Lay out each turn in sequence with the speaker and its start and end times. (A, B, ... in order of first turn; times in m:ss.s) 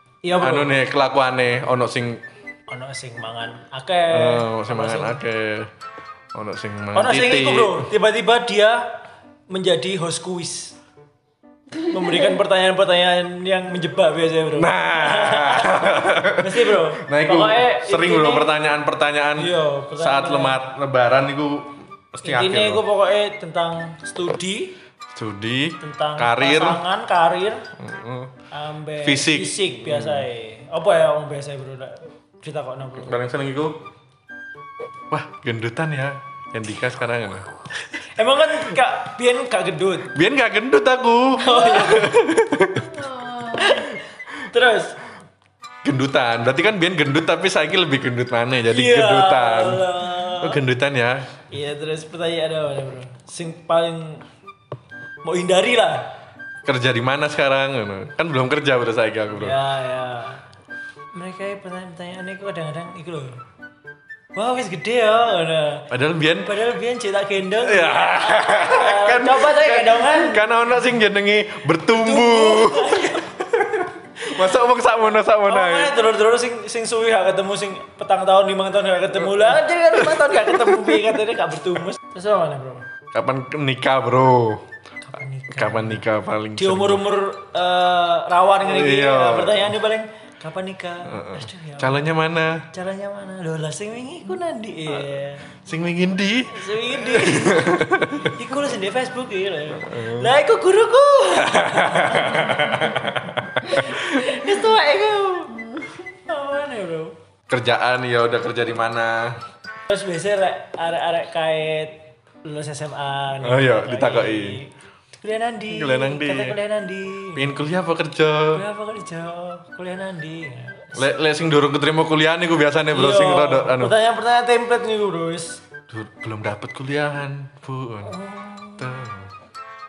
0:00.2-0:00.8 A
0:00.4-0:02.2 B
0:02.7-0:05.2 A
0:04.1-0:05.7 B
0:06.3-0:07.9 B
0:06.9-0:08.8 A
0:09.5-0:10.8 A
0:11.8-0:18.5 A
0:14.6-0:22.8 B
0:19.4-0:20.6 A
0:22.2-0:24.7 A
0:25.1-0:26.8 B
0:25.8-0:27.6 A
0:27.8-0:28.3 B
0:28.5-0:33.2 A
0:29.0-0:30.3 B
0:33.0-0:33.8 B
0:35.1-0:37.5 B
0:38.1-0:40.1 A
0:40.1-0:43.2 B
0:41.4-0:42.1 A
0:43.2-0:45.0 A
0:45.8-0:51.3 B
0:48.7-0:50.6 A
0:51.5-0:54.2 A
0:55.2-0:56.1 A
0:56.6-0:59.6 B
0:59.3-1:00.4 A
1:01.1-1:03.4 A
1:04.3-1:05.9 A
1:05.9-1:06.6 B
1:06.4-1:10.5 A
1:07.6-1:15.9 B
1:12.0-1:13.5 A
1:14.2-1:14.5 A
1:15.4-1:22.8 A
1:19.3-1:21.1 B
1:23.1-1:24.6 B
1:25.0-1:26.0 A
1:25.5-1:27.0 B
1:26.6-1:35.5 A
1:28.6-1:29.7 B
1:31.1-1:32.6 B
1:35.5-1:38.3 B
1:36.5-1:47.1 A
1:39.8-1:40.4 B
1:41.4-1:44.5 B
1:47.5-1:49.4 B
1:49.9-1:54.7 A
1:53.4-1:54.6 B
1:55.2-1:57.6 A
1:55.7-1:56.6 B
1:57.3-1:58.6 B
1:58.5-2:01.1 A
2:00.9-2:03.9 B
2:02.9-2:05.6 A
2:05.9-2:08.2 B
2:08.0-2:08.9 A
2:08.8-2:09.3 B